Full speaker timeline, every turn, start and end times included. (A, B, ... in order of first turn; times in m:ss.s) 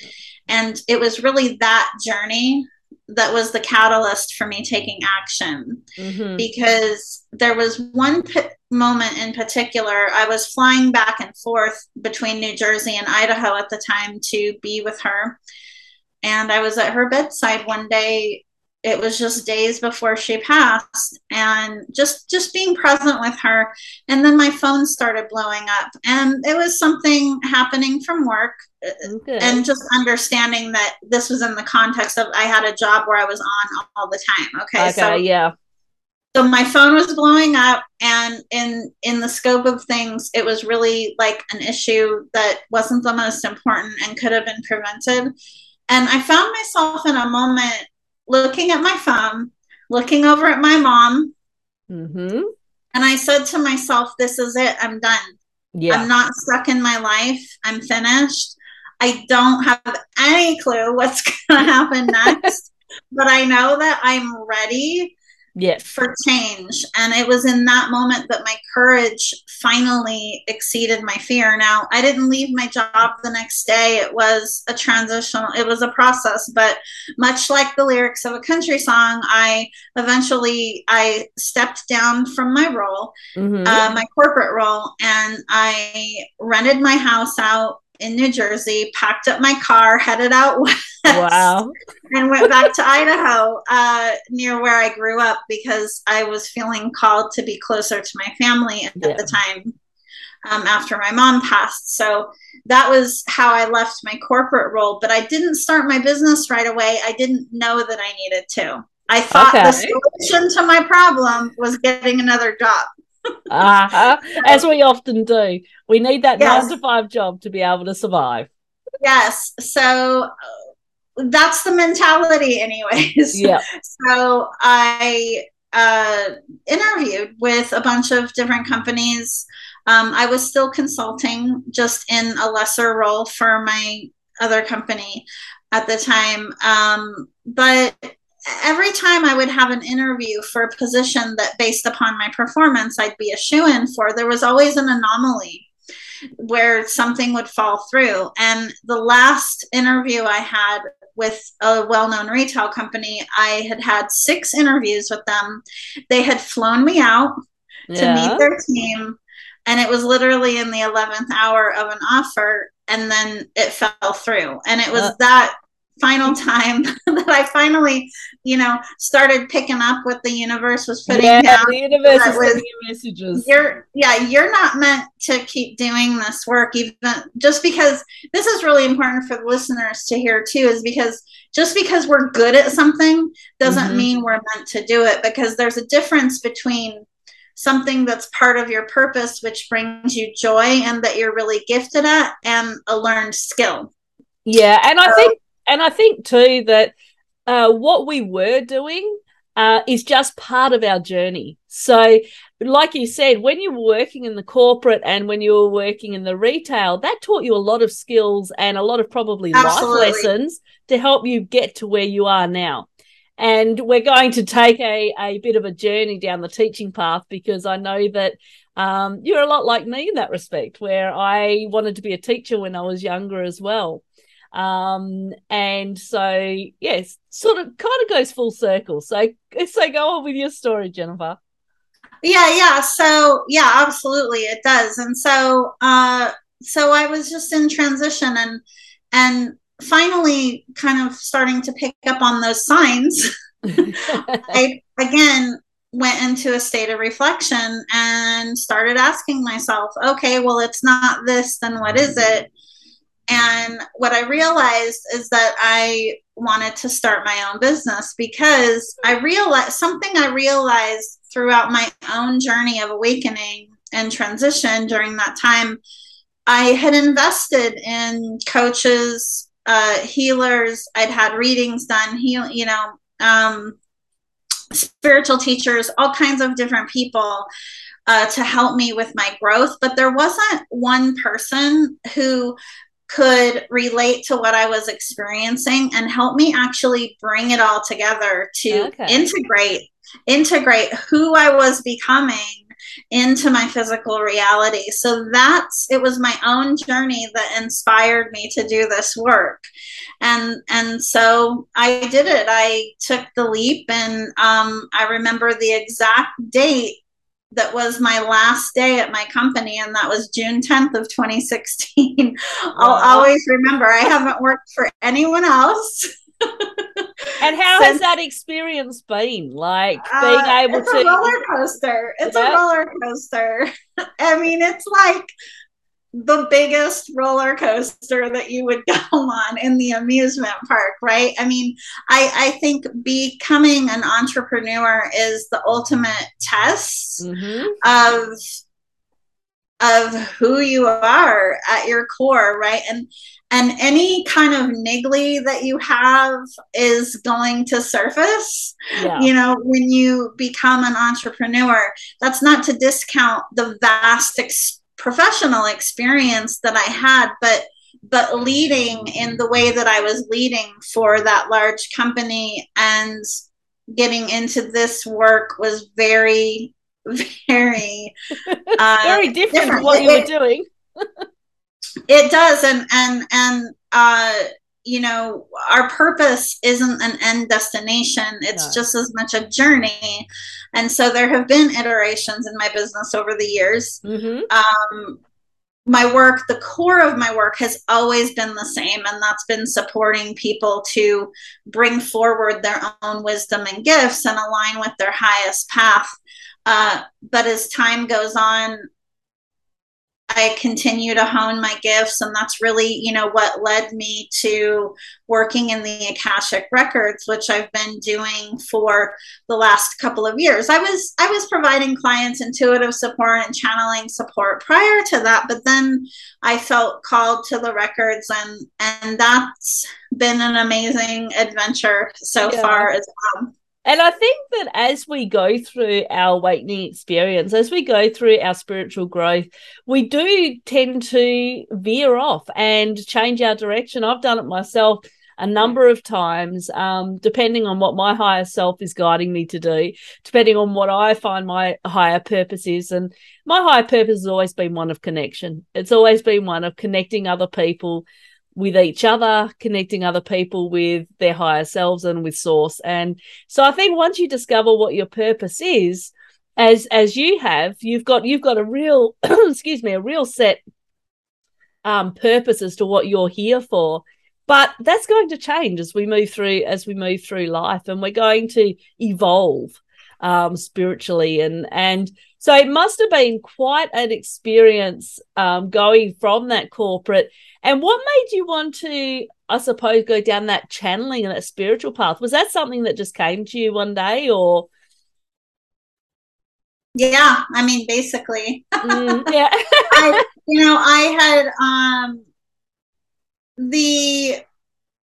0:00.5-0:05.8 A
0:06.0-0:06.5 B
0:06.4-0:15.4 A
0:16.2-0:35.2 A
0:29.0-0:29.6 B
0:34.8-0:35.5 B
0:36.3-0:45.3 A
0:45.9-0:51.3 A
0:51.9-0:52.5 B
0:52.9-0:55.3 A
0:55.8-0:56.1 B
0:55.9-1:05.2 A
1:05.6-1:05.9 B
1:05.8-1:31.5 A
1:23.4-1:23.8 B
1:31.1-1:31.7 B
1:32.1-1:39.7 A
1:39.0-1:39.3 B
1:40.4-1:52.9 A
1:49.3-1:49.9 B
1:53.5-1:58.5 B
1:54.4-1:54.6 A
1:56.4-1:56.7 A
1:59.0-2:00.3 A
2:01.2-2:25.7 A
2:03.3-2:03.6 B
2:26.4-2:37.4 A
2:37.9-2:38.5 B
2:38.0-2:52.6 A
2:51.1-2:53.5 B
2:53.4-3:07.0 A
3:03.7-3:04.1 B
3:07.6-3:13.9 A
3:14.5-3:16.9 B
3:15.0-3:15.3 A
3:17.5-3:32.9 B
3:29.5-3:30.3 A
3:33.4-3:51.4 B
3:52.2-4:12.5 A
4:03.7-4:04.6 B
4:13.3-4:25.8 A
4:26.5-4:33.8 A
4:34.7-4:37.5 A
4:38.1-4:42.6 A
4:43.1-4:59.6 A
4:48.7-4:49.3 B
5:00.2-5:07.0 A
5:07.5-5:17.1 A
5:12.8-5:13.3 B
5:17.4-5:21.3 B
5:17.8-5:18.0 A
5:20.0-5:25.3 A
5:22.3-5:22.6 B
5:26.2-5:37.2 A
5:37.2-5:37.8 B
5:37.8-5:38.4 A
5:39.8-6:03.2 A
5:49.0-5:49.3 B
6:03.9-6:08.1 A
6:08.5-6:11.1 B
6:08.8-6:10.3 A
6:12.1-6:25.2 A
6:18.5-6:18.8 B
6:24.0-6:24.5 B
6:25.9-6:38.8 A
6:40.3-7:03.5 A
7:02.4-7:02.9 B
7:03.8-7:40.6 B
7:41.8-8:04.7 B
8:07.0-8:09.3 A
8:08.8-8:10.2 B
8:09.9-8:12.2 A
8:13.6-8:14.4 A